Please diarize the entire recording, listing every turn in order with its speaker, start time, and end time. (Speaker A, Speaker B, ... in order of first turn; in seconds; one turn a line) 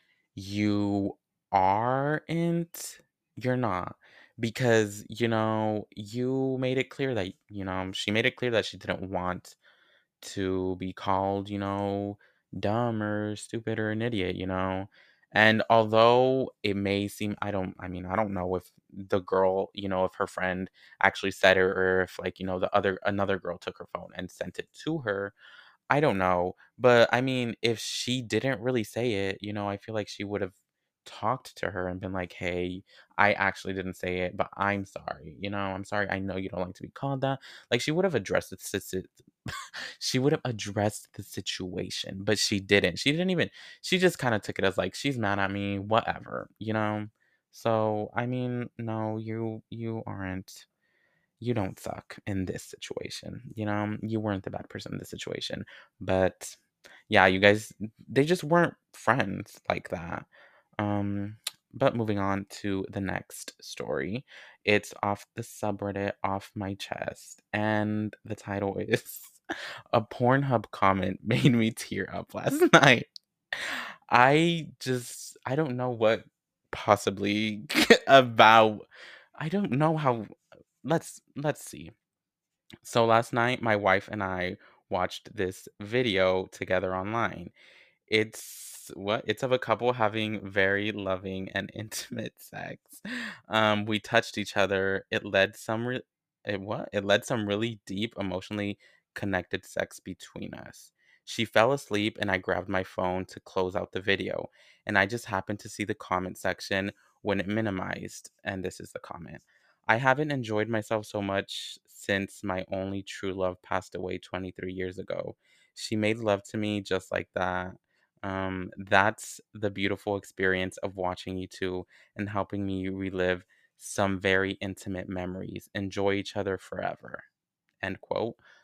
Speaker A: 0.3-9.6
Speaker A: 10.2-25.4
Speaker A: 25.9-39.2
Speaker A: 40.0-50.7
Speaker A: 51.4-56.6
Speaker A: 57.1-69.4
Speaker A: 69.9-78.9
Speaker A: 79.4-80.3
Speaker A: 80.8-81.9
Speaker A: 82.8-87.5
Speaker A: 88.1-127.3
Speaker A: 127.8-128.4